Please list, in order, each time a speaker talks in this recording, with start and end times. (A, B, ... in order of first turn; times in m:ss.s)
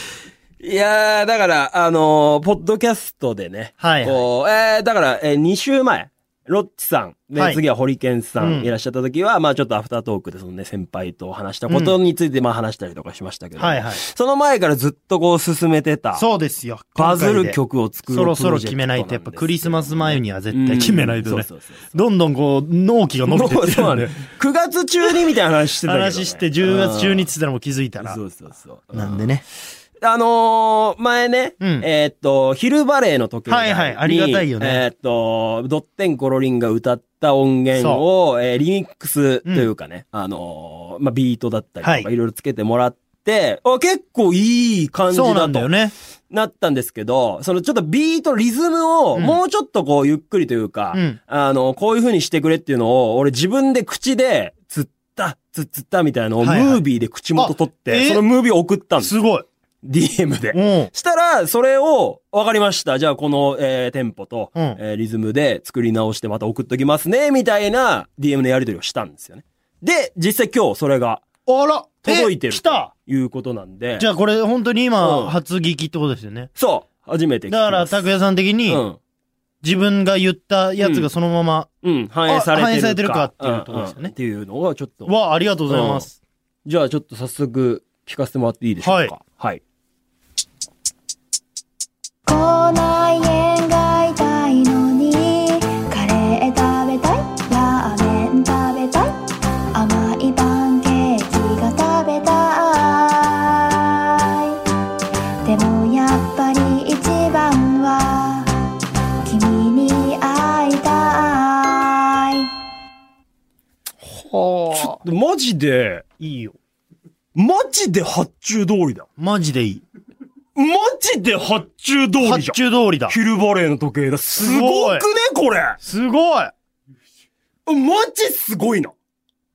0:00.6-0:16.2 A
0:03.8-0:04.2 B
0:07.4-0:07.6 B
0:08.4-0:08.7 B
0:11.7-0:12.0 B
0:13.6-0:14.0 B
0:16.2-0:24.2 B
0:17.0-0:22.0 A
0:23.3-0:27.3 A
0:25.8-0:28.2 B
0:28.0-0:29.4 A
0:28.9-0:29.4 B
0:30.0-0:45.7 A
0:31.6-0:31.9 B
0:33.5-0:34.8 B
0:37.8-0:38.0 B
0:41.8-0:42.1 B
0:45.1-0:45.9 B
0:46.3-0:59.2 A
0:50.9-0:51.2 B
0:56.4-0:56.8 B
0:57.4-0:58.2 B
0:59.0-0:59.5 B
0:59.8-1:11.2 A
1:00.5-1:00.9 B
1:11.5-1:12.9 B
1:12.0-1:14.1 A
1:14.0-1:16.5 B
1:15.0-1:15.3 A
1:16.6-1:18.1 A
1:17.5-1:18.8 B
1:18.7-1:19.0 A
1:19.6-1:21.7 B
1:20.8-1:21.1 A
1:21.8-1:25.1 A
1:22.3-1:24.1 B
1:25.1-1:26.2 B
1:25.7-1:26.1 A
1:26.7-1:29.6 A
1:28.8-1:29.1 B
1:32.3-1:39.2 C
1:39.7-1:44.6 C
1:45.4-1:48.7 C
1:49.2-1:52.5 C
1:54.0-1:55.0 B
1:54.7-1:56.1 A
1:56.2-1:56.6 B
1:57.4-1:59.1 A
1:59.2-1:59.8 B
2:00.6-2:05.8 A
2:02.2-2:03.2 B
2:04.3-2:05.1 B
2:05.8-2:06.5 B
2:07.7-2:09.0 A